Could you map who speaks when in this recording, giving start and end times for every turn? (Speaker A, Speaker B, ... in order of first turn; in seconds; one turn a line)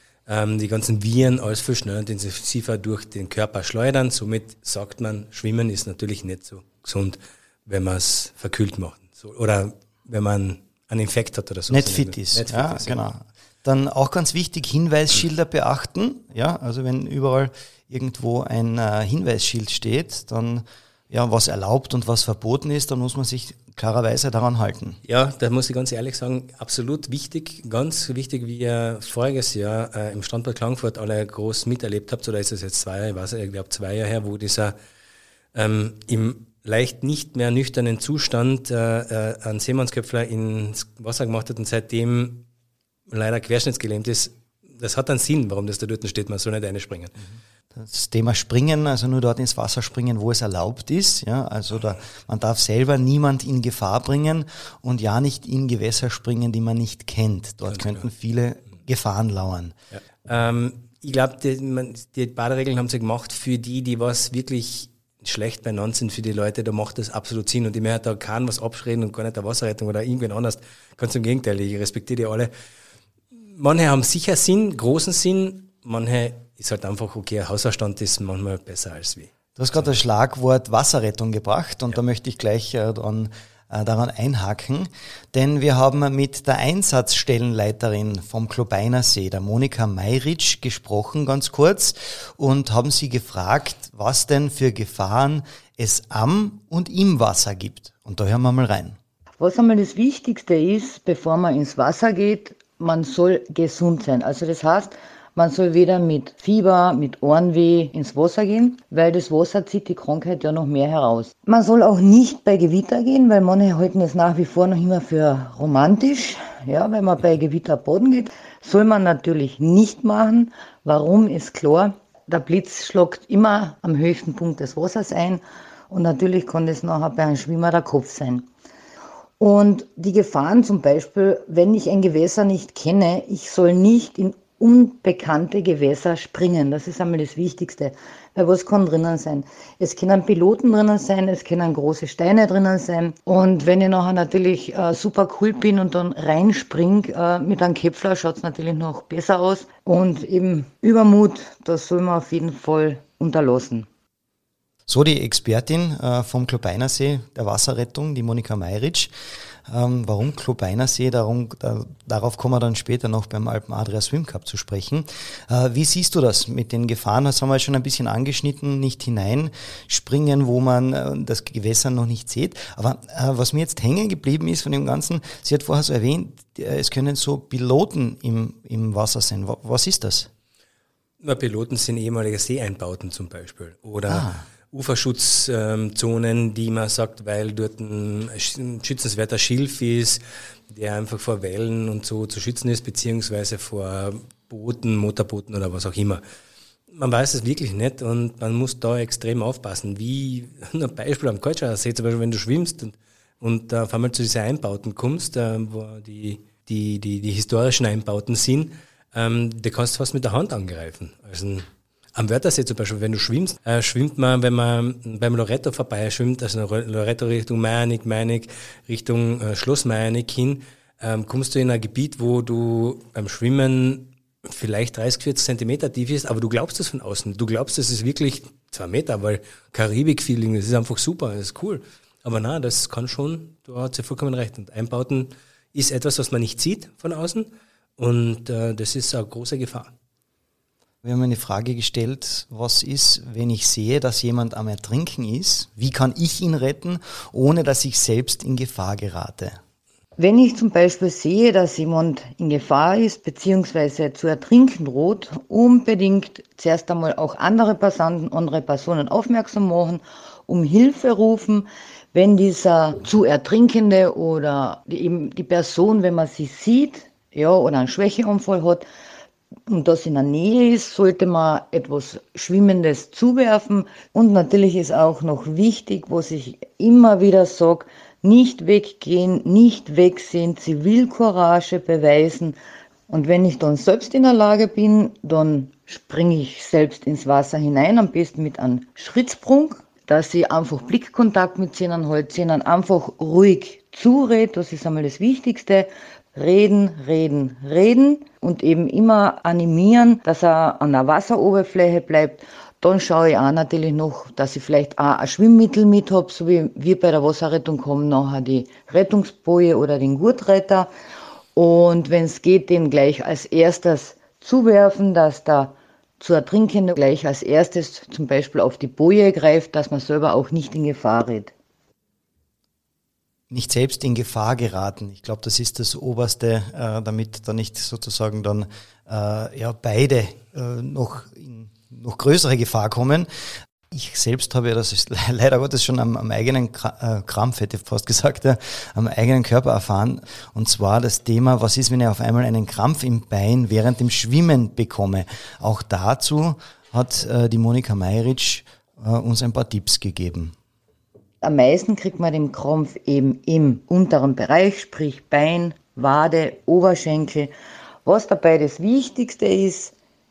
Speaker A: 0.3-13.0
Speaker B: 11.7-25.0
Speaker A: 25.0-34.7
Speaker A: 35.5-42.5
Speaker A: 43.1-47.1
Speaker B: 47.7-59.7
Speaker A: 57.7-58.0
Speaker A: 59.9-72.5
Speaker A: 73.5-79.9
Speaker B: 79.6-99.0
Speaker C: 99.4-128.4
Speaker C: 129.4-153.9
Speaker B: 154.9-159.1
Speaker B: 159.7-180.3
Speaker A: 181.2-196.2
Speaker B: 184.1-184.4
Speaker A: 196.9-239.9
Speaker B: 241.0-249.6
Speaker C: 250.2-268.8
Speaker C: 269.7-282.6
Speaker C: 283.1-310.9
Speaker C: 311.6-321.5
Speaker B: 323.5-333.3
Speaker B: 333.9-350.5
Speaker C: 351.4-357.5
Speaker C: 358.0-359.9